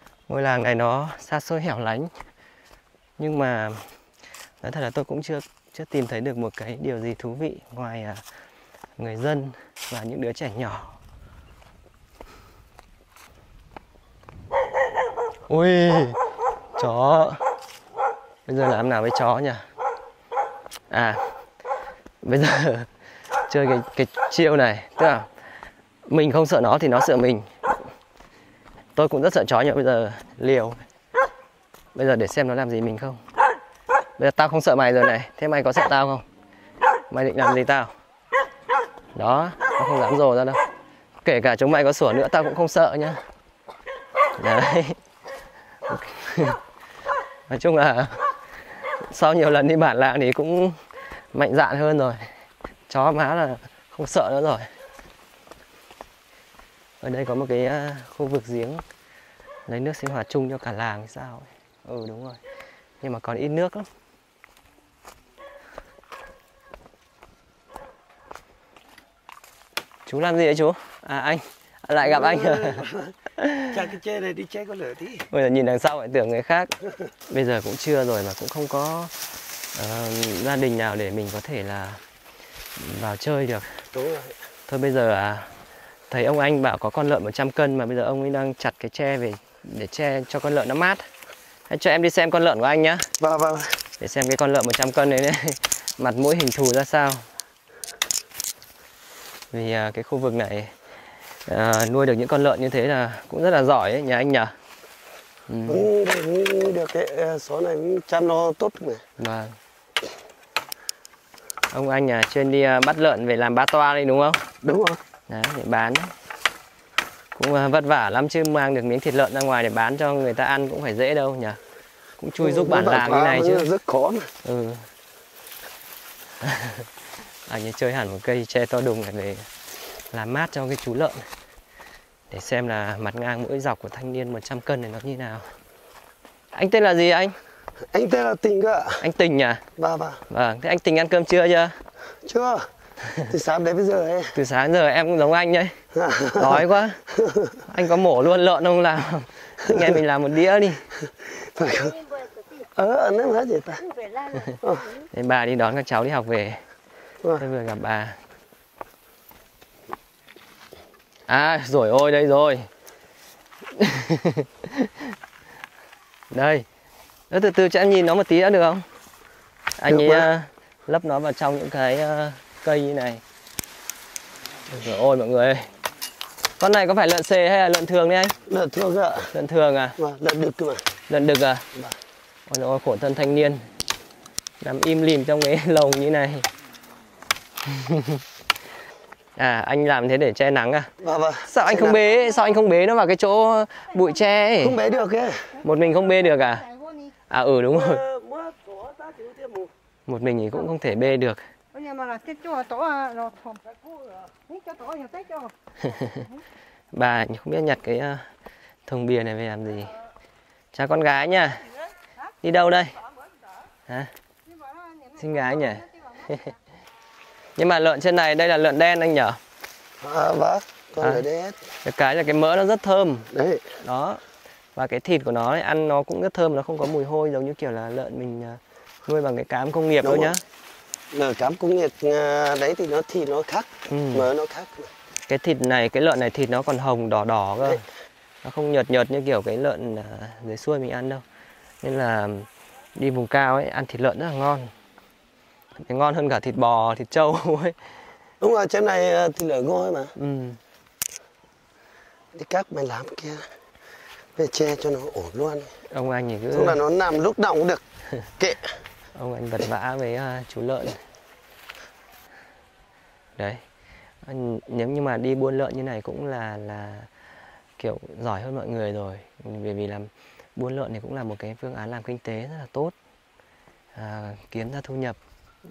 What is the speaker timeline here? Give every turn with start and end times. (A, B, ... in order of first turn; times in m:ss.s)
0:00.3-0:02.1 A
0:03.2-0:03.8 A
0:04.6-0:08.2 A
0:09.0-0:11.0 A
0:15.5-0:16.2 A
0:16.8-0:17.4 A
0:18.4-0:19.6 A
0:20.9-0:21.2 A
0:22.2-0:22.9 A
0:23.5-0:25.3 A
0:26.1-0:27.5 A
0:28.9-0:30.8 A
0:31.9-0:33.2 A
0:34.2-0:36.2 A
0:37.1-0:37.9 A
0:39.1-0:40.6 A
0:41.2-0:43.2 A
0:44.4-0:45.0 A
0:45.9-0:46.6 A
0:47.5-0:48.2 A
0:49.0-0:50.8 A
0:51.3-0:52.2 A
0:52.9-0:54.7 A
0:57.0-0:58.8 A
0:59.7-1:02.4 A
1:03.0-1:03.9 A
1:10.1-1:12.8 A
1:12.0-1:13.1 B
1:13.4-1:13.8 A
1:13.7-1:15.3 B
1:15.3-1:16.7 A
1:17.3-1:19.1 A
1:19.8-1:22.0 A
1:22.8-1:23.8 A
1:23.9-1:24.4 B
1:24.7-1:25.5 A
1:26.1-1:31.0 A
1:31.7-1:33.1 A
1:33.2-1:33.8 B
1:34.0-1:37.3 A
1:39.5-1:40.7 A
1:41.5-1:44.5 A
1:45.5-1:45.9 A
1:45.6-1:49.0 B
1:49.2-1:49.6 A
1:51.7-1:54.5 A
1:54.6-1:55.0 B
1:55.3-1:56.1 A
1:57.4-2:01.6 A
2:02.2-2:03.7 A
2:02.4-2:04.3 B
2:04.4-2:04.9 A
2:06.4-2:06.8 A
2:07.5-2:09.5 A
2:10.1-2:11.2 A
2:12.3-2:15.4 A
2:16.5-2:17.4 A
2:17.9-2:19.0 B
2:19.0-2:19.6 A
2:19.8-2:20.2 B
2:20.3-2:21.8 A
2:22.2-2:22.7 B
2:23.3-2:24.4 B
2:24.3-2:25.8 A
2:26.0-2:26.6 B
2:26.4-2:27.0 A
2:27.7-2:30.8 A
2:31.6-2:32.0 B
2:32.8-2:33.8 B
2:33.8-2:34.6 C
2:34.6-2:34.9 B
2:35.1-2:36.6 A
2:37.4-2:38.2 A
2:41.3-2:42.7 A
2:43.8-2:44.9 A
2:46.3-2:46.6 A
2:47.3-2:48.8 A
2:49.8-2:53.2 A
2:49.9-2:50.3 B
2:54.7-2:55.7 A
2:56.6-2:58.4 A
2:58.4-2:59.3 B
2:59.3-3:00.0 A
3:00.0-3:00.9 B
3:01.1-3:01.6 A
3:02.5-3:03.6 A
3:04.6-3:06.5 A
3:07.7-3:08.2 A
3:09.4-3:10.9 A
3:11.0-3:12.0 B
3:11.4-3:14.8 A
3:14.6-3:15.6 B
3:15.6-3:16.7 A
3:17.3-3:18.0 A
3:17.7-3:19.7 B
3:20.1-3:21.4 A
3:21.8-3:23.5 C
3:24.5-3:25.3 C
3:25.8-3:26.3 A
3:26.9-3:28.3 A
3:28.9-3:29.9 A
3:30.7-3:31.7 A
3:32.4-3:33.0 A
3:35.2-3:36.5 A
3:37.6-3:39.4 A
3:40.0-3:41.6 B
3:41.0-3:41.2 A
3:41.8-3:44.2 A
3:43.3-3:43.7 B
3:44.8-3:50.4 A
3:50.0-3:50.4 B
3:51.1-3:54.9 B
3:53.9-3:54.3 A
3:55.3-3:57.8 A
3:58.4-4:01.2 A
4:01.8-4:04.7 A
4:05.8-4:07.8 A
4:08.4-4:10.1 B
4:10.2-4:10.6 A
4:12.3-4:13.5 B
4:14.4-4:15.7 B
4:15.9-4:16.8 A
4:16.5-4:17.8 B
4:18.4-4:18.6 B
4:19.1-4:21.0 A
4:23.4-4:23.6 A
4:24.2-4:27.1 A
4:27.8-4:32.9 A
4:34.0-4:35.2 A